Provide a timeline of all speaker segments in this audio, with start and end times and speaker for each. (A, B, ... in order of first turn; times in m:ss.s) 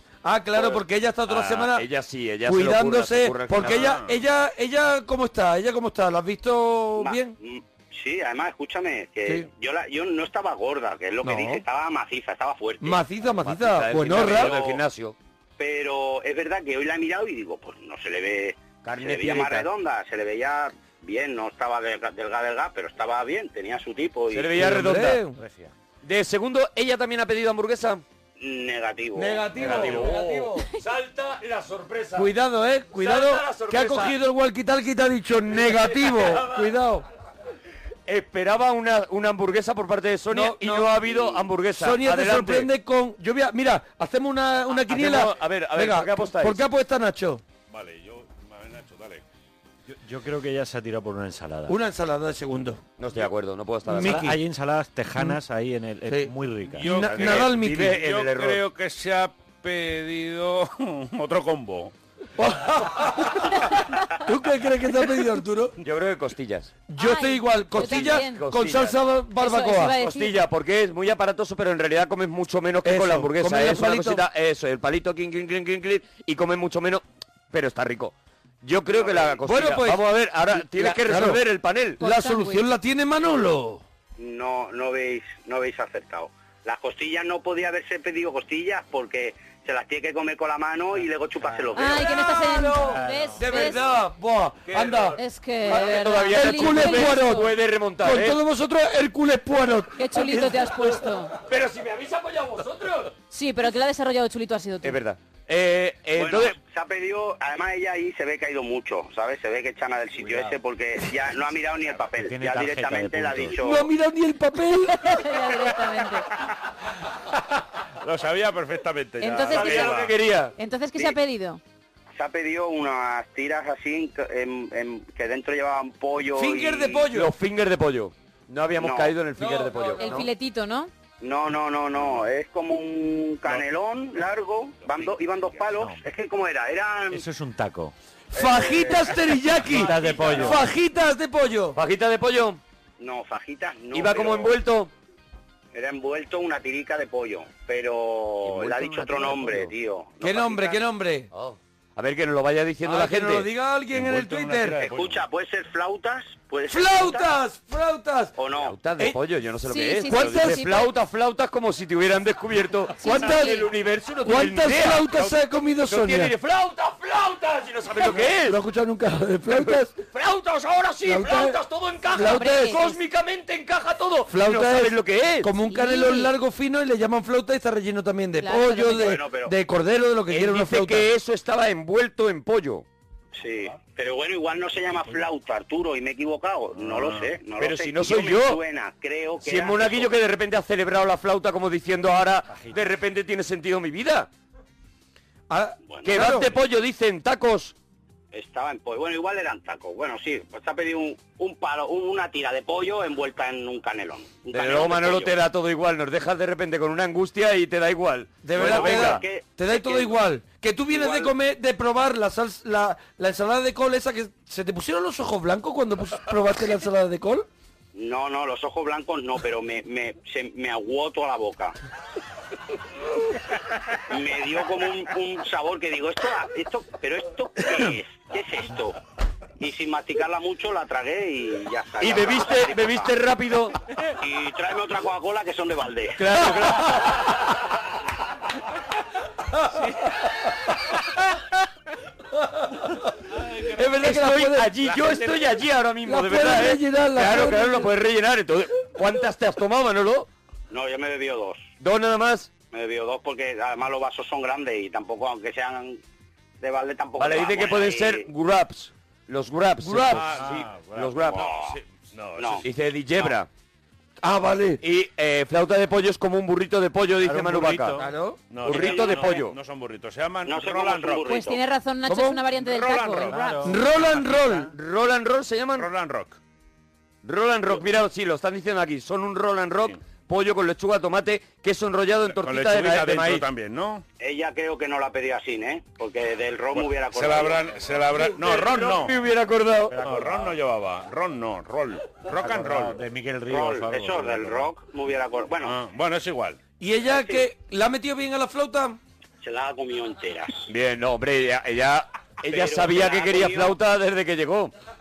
0:00.2-0:01.9 A
0:01.3-0:04.0 B
0:02.4-0:07.3 A
0:03.6-0:04.2 C
0:07.0-0:13.0 D
0:11.2-0:11.6 A
0:12.8-0:14.5 A
0:13.4-0:15.2 B
0:14.1-0:14.8 D
0:15.6-0:24.6 D
0:18.8-0:19.7 B
0:24.3-0:25.2 B
0:24.6-0:25.4 A
0:25.4-0:25.7 E
0:26.0-0:28.0 B
0:28.4-0:29.9 D
0:29.2-0:30.7 A
0:29.6-0:32.3 B
0:32.2-0:37.0 A
0:33.0-0:34.2 B
0:35.5-0:36.7 B
0:38.1-0:42.7 B
0:40.3-0:47.4 A
0:44.7-0:46.6 B
0:47.7-0:49.2 C
0:49.9-0:51.8 E
0:51.7-0:52.8 A
0:53.0-0:54.3 B
0:53.9-0:54.4 A
0:54.0-0:57.0 E
0:56.1-0:58.0 A
0:56.7-1:01.9 C
0:57.1-0:58.6 B
1:02.4-1:03.6 A
1:04.1-1:05.8 A
1:05.8-1:06.7 B
1:06.9-1:10.0 A
1:07.0-1:08.5 F
1:07.8-1:09.0 B
1:09.3-1:10.4 F
1:10.0-1:22.0 B
1:12.8-1:14.2 A
1:18.9-1:19.4 D
1:19.4-1:21.4 A
1:22.0-1:23.8 A
1:22.0-1:22.6 F
1:24.2-1:32.0 D
1:31.6-1:32.2 E
1:31.7-1:33.8 F
1:32.0-1:41.1 A
1:32.8-1:33.5 E
1:34.7-1:38.4 B
1:35.2-1:37.5 F
1:40.0-1:41.3 F
1:41.4-1:43.1 B
1:43.3-1:45.0 F
1:44.8-1:46.6 B
1:46.2-1:53.9 D
1:52.2-1:53.6 E
1:53.6-1:55.1 A
1:54.9-1:56.3 F
1:58.0-2:00.2 C
1:59.2-2:01.6 F
1:59.5-2:00.5 B
2:02.2-2:07.1 D
2:06.3-2:07.3 A
2:07.1-2:10.3 B
2:08.8-2:09.2 D
2:10.0-2:10.9 F
2:11.2-2:17.2 D
2:12.0-2:12.2 C
2:14.8-2:15.8 C
2:17.1-2:17.9 E
2:18.3-2:21.8 A
2:18.4-2:20.6 D
2:19.7-2:20.6 E
2:21.7-2:22.6 B
2:23.0-2:24.6 D
2:23.9-2:24.9 B
2:25.7-2:30.8 D
2:28.4-2:29.7 B
2:30.2-2:31.3 A
2:31.3-2:33.5 B
2:32.8-2:34.8 A
2:33.9-2:35.2 C
2:34.8-2:37.3 D
2:36.7-2:38.3 A
2:38.4-2:38.8 D
2:38.6-2:48.6 B
2:39.6-2:40.9 F
2:40.1-2:40.7 A
2:43.0-2:43.7 F
2:43.0-2:43.6 A
2:44.2-2:46.3 A
2:48.1-2:49.9 A
2:49.5-2:55.5 B
2:51.0-2:51.6 A
2:52.1-2:52.8 A
2:52.2-2:53.0 F
2:54.3-3:01.1 A
2:55.6-2:56.3 F
2:58.4-2:59.2 F
2:59.0-2:59.5 D
3:00.3-3:02.8 B
3:03.3-3:10.1 D
3:06.8-3:07.3 C
3:07.6-3:08.6 B
3:09.4-3:14.3 B
3:12.4-3:12.8 E
3:15.5-3:16.5 A
3:15.9-3:16.3 D
3:16.0-3:17.7 B
3:18.3-3:25.4 D
3:24.5-3:29.2 B
3:28.4-3:37.4 A
3:28.6-3:30.2 D
3:30.9-3:31.3 D
3:37.9-3:41.7 D
3:44.1-3:49.0 D
3:49.6-3:53.1 D
3:52.0-3:53.8 B
3:54.2-3:56.3 D
3:56.2-3:57.0 A
3:56.2-3:57.3 B
4:03.7-4:05.4 A
4:03.9-4:10.3 B
4:06.0-4:07.9 A
4:10.7-4:11.7 D
4:11.8-4:12.5 B
4:12.7-4:16.0 D
4:16.6-4:18.2 D
4:17.2-4:21.5 B
4:19.8-4:20.2 A
4:20.1-4:23.4 C
4:20.4-4:20.9 E
4:21.3-4:21.8 D
4:22.4-4:22.6 D
4:22.6-4:23.5 B
4:24.2-4:24.8 A
4:24.8-4:28.0 B
4:27.3-4:27.8 E
4:27.4-4:31.3 C
4:28.0-4:28.4 A
4:28.6-4:29.6 B
4:28.7-4:29.3 D
4:30.4-4:31.6 D
4:31.2-4:33.6 F
4:32.0-4:32.4 A
4:32.6-4:34.3 C
4:33.2-4:33.8 E
4:33.6-4:34.7 A
4:34.7-4:35.9 B
4:35.8-4:36.4 C
4:37.2-4:43.4 B
4:42.3-4:44.0 C
4:44.2-4:47.7 D
4:46.7-4:49.2 C
4:48.3-4:50.0 B
4:49.9-4:50.6 E
4:50.0-4:53.0 C
4:52.4-4:54.7 E
4:53.5-4:55.8 D
4:55.6-4:56.6 C
4:56.8-4:59.0 A
4:57.0-4:57.4 D
4:59.4-5:00.7 D
5:00.7-5:04.7 B
5:02.4-5:03.8 D